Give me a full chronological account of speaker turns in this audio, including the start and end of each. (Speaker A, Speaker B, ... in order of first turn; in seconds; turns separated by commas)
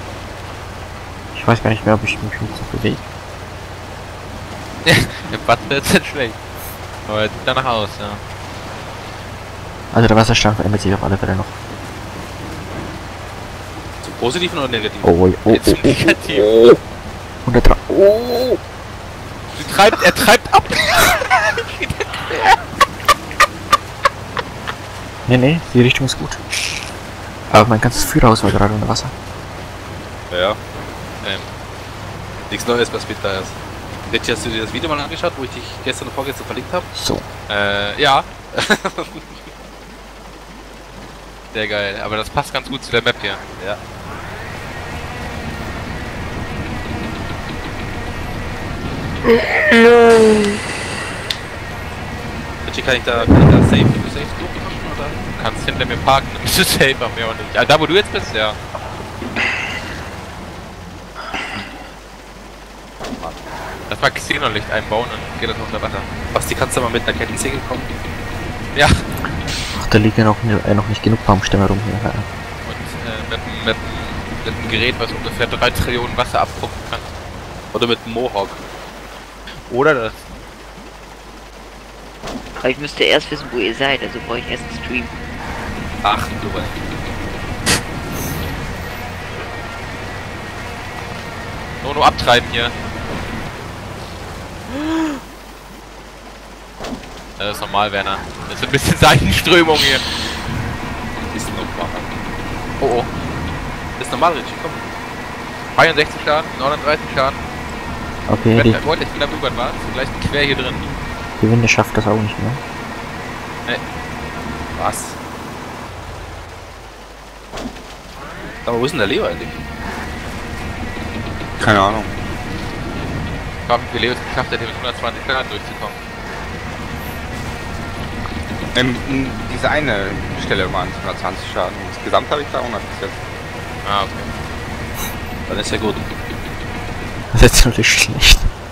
Speaker A: 1.3-3.0, Speaker B: 4.8-6.4, Speaker B: 7.1-8.2, Speaker A: 9.9-11.6, Speaker C: 14.0-15.1, Speaker A: 15.0-16.8, Speaker B: 15.5-16.5, Speaker A: 17.4-18.6, Speaker B: 19.5-22.6, Speaker A: 25.3-26.4, Speaker A: 27.5-29.1, Speaker C: 30.3-30.6, Speaker B: 31.2-31.5, Speaker C: 32.5-33.6, Speaker C: 34.1-36.9, Speaker A: 36.9-37.3, Speaker B: 37.5-38.3, Speaker C: 38.5-39.4, Speaker B: 41.5-43.4, Speaker C: 52.6-55.2, Speaker B: 55.3-58.6, Speaker B: 63.9-66.1, Speaker C: 66.3-67.9, Speaker B: 68.7-69.0, Speaker A: 69.7-72.3, Speaker B: 72.6-77.1, Speaker C: 77.7-78.6, Speaker B: 79.5-80.2, Speaker D: 82.6-85.1, Speaker C: 86.0-86.8, Speaker B: 91.8-92.7, Speaker B: 97.4-100.1, Speaker C: 101.3-102.1, Speaker B: 102.8-103.1, Speaker C: 104.0-104.8, Speaker B: 105.7-107.4, Speaker A: 108.3-108.8, Speaker B: 108.5-110.9, Speaker A: 111.4-112.6, Speaker C: 114.8-115.2, Speaker C: 118.6-119.6, Speaker E: 121.6-122.1, Speaker B: 123.7-126.0, Speaker E: 128.7-133.1, Speaker B: 133.8-134.3, Speaker C: 135.5-136.0, Speaker A: 137.3-138.5